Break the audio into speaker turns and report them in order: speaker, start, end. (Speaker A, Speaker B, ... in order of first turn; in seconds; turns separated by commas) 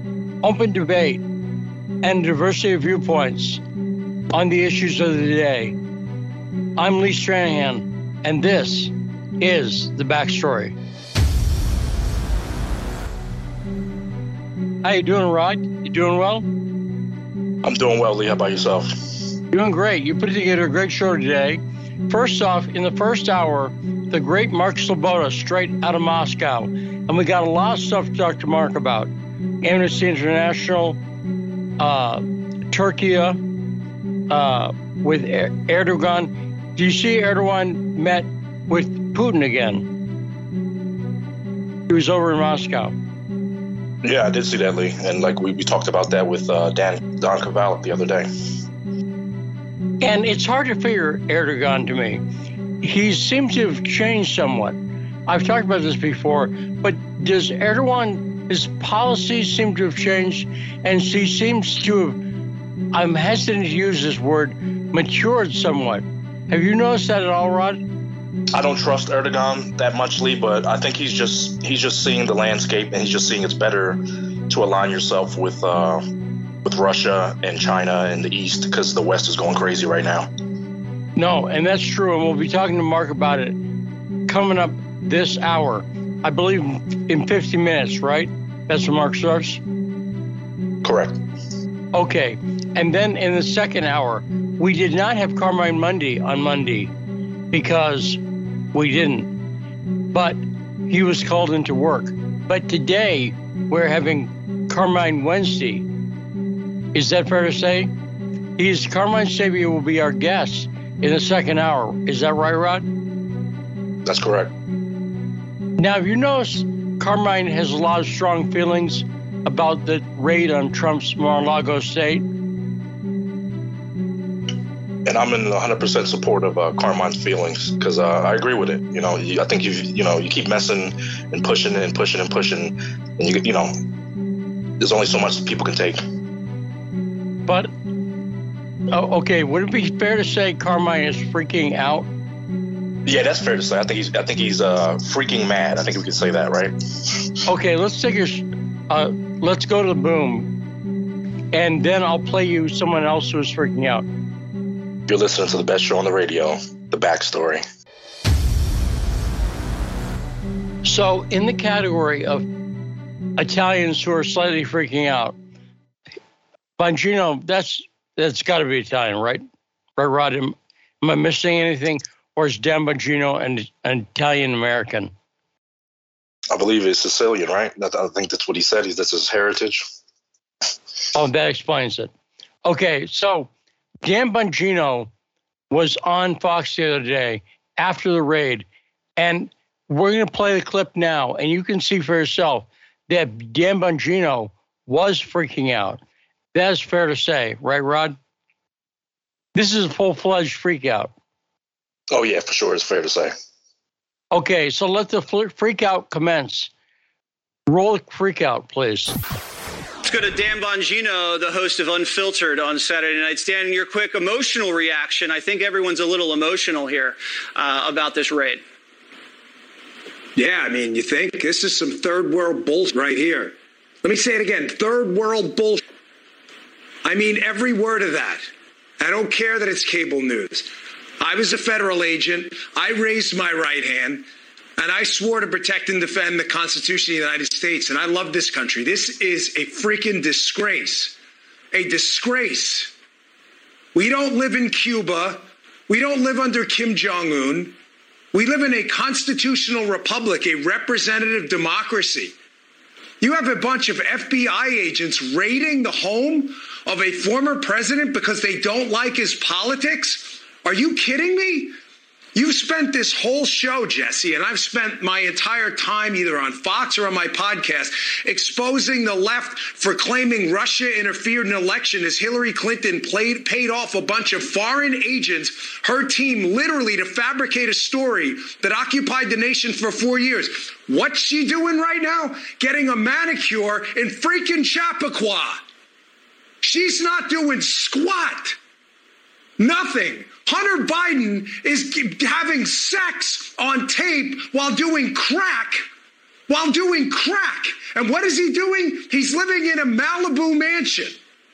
Speaker A: 0.4-1.2, Speaker A: 2.0-3.6, Speaker A: 4.3-5.8, Speaker A: 6.8-10.8, Speaker A: 14.8-16.4, Speaker B: 17.6-18.9, Speaker A: 19.5-29.1, Speaker A: 29.6-31.0, Speaker A: 31.8-33.4, Speaker A: 34.3-39.9, Speaker A: 41.9-42.9, Speaker B: 44.0-48.3, Speaker A: 50.0-52.2, Speaker A: 52.8-62.2, Speaker A: 62.9-67.8, Speaker B: 68.5-76.0, Speaker B: 76.6-80.3, Speaker A: 81.2-83.6, Speaker A: 84.3-89.6, Speaker B: 90.8-91.2, Speaker A: 91.9-96.9, Speaker A: 97.5-98.2, Speaker A: 98.7-99.3, Speaker A: 100.1-105.8, Speaker A: 106.9-107.9, Speaker A: 108.6-112.8, Speaker B: 114.0-114.5, Speaker A: 115.8-122.2, Speaker B: 125.0-133.7, Speaker B: 134.8-136.0, Speaker A: 138.9-142.1, Speaker B: 143.1-146.7, Speaker A: 147.5-150.5, Speaker A: 151.5-154.1, Speaker B: 155.1-157.6, Speaker A: 160.8-162.5, Speaker A: 163.4-165.3, Speaker A: 166.8-169.4, Speaker A: 170.0-175.1, Speaker B: 176.5-179.8, Speaker A: 181.1-182.1, Speaker A: 182.6-183.5, Speaker A: 184.0-185.1, Speaker A: 185.7-188.7, Speaker A: 189.2-196.0, Speaker A: 196.5-198.2, Speaker A: 199.5-201.1, Speaker B: 202.1-203.3, Speaker A: 204.3-206.7, Speaker A: 207.7-209.1, Speaker C: 210.0-218.6, Speaker D: 220.3-225.8, Speaker D: 227.0-228.5, Speaker D: 229.0-234.3, Speaker D: 234.8-241.2, Speaker D: 241.7-242.9, Speaker D: 243.9-247.7, Speaker D: 248.3-252.3, Speaker D: 253.2-261.8, Speaker D: 262.3-285.6, Speaker D: 286.6-288.6, Speaker D: 289.6-295.9, Speaker D: 296.5-301.2